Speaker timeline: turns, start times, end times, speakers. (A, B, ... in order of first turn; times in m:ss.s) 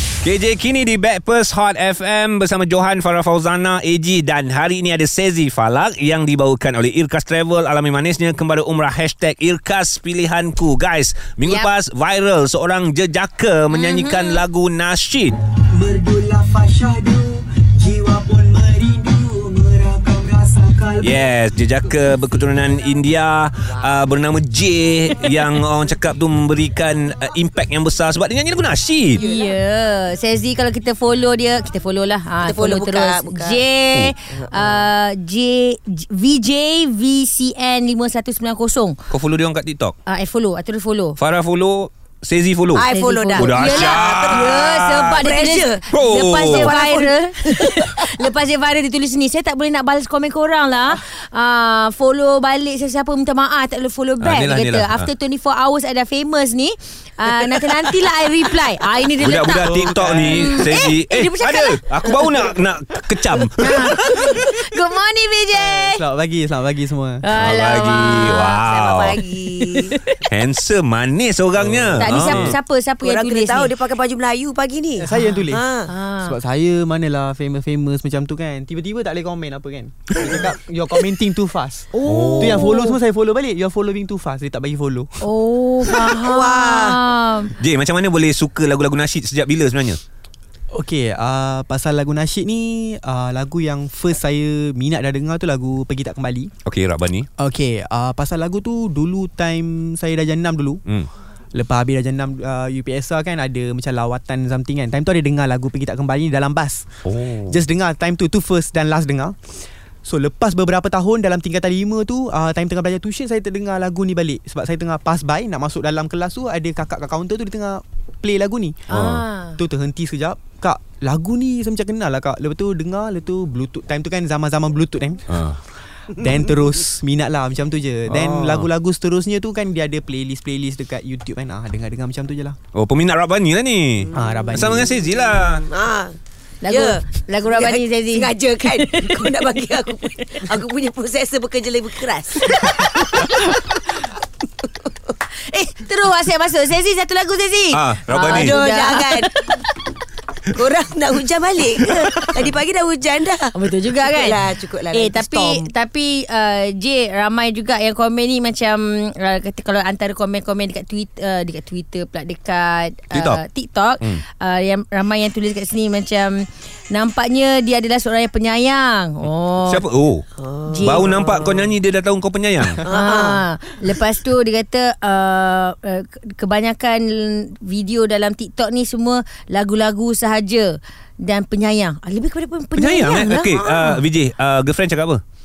0:00.2-0:15.3 A
0:13.7-0:14.4 B
0:15.8-0:21.0 C
0:21.0-0:29.2 A
0:29.1-0:39.0 B
0:29.2-0:29.5 D
0:32.4-0:33.6 D
0:39.1-0:39.9 A
0:40.0-0:41.2 B
0:41.2-0:45.2 A
0:42.8-0:45.7 D
0:42.8-1:02.5 B
0:45.9-0:46.8 A
0:46.4-0:47.1 D
0:54.2-0:55.1 A
0:59.2-1:04.5 A
0:59.5-1:00.7 E
1:03.6-1:06.0 B
1:05.5-1:07.2 E
1:07.2-1:10.2 B
1:07.3-1:09.2 A
1:09.1-1:09.9 D
1:10.3-1:12.6 A
1:11.6-1:12.5 E
1:12.0-1:13.8 B
1:13.0-1:15.0 D
1:15.0-1:15.7 E
1:15.1-1:16.4 B
1:15.5-1:15.8 D
1:16.2-1:25.2 E
1:22.0-1:22.8 A
1:22.1-1:22.7 B
1:25.2-1:27.5 B
1:26.0-1:26.9 D
1:27.6-1:30.0 A
1:30.7-1:36.5 E
1:36.6-1:37.3 A
1:37.4-1:40.8 E
1:41.5-1:49.4 E
1:47.0-1:47.6 A
1:50.0-1:58.8 E
1:58.9-1:59.6 B
1:58.9-1:59.2 A
1:59.6-2:05.3 E
2:05.3-2:05.6 A
2:06.1-2:12.6 E
2:08.1-2:08.7 A
2:12.7-2:15.6 A
2:14.1-2:14.9 E
2:15.7-2:16.1 D
2:16.6-2:19.4 B
2:16.7-2:23.3 D
2:25.5-2:29.6 B
2:27.7-2:28.6 A
2:28.4-2:29.2 D
2:30.5-2:33.5 D
2:32.0-2:32.4 A
2:33.5-2:49.8 B
2:34.0-2:35.6 D
2:43.1-2:43.4 A
2:49.6-2:50.2 A
2:50.4-2:51.7 D
2:50.7-2:51.1 B
2:50.8-2:52.8 A
2:52.8-2:53.3 D
2:52.9-3:03.9 B
3:02.8-3:05.2 A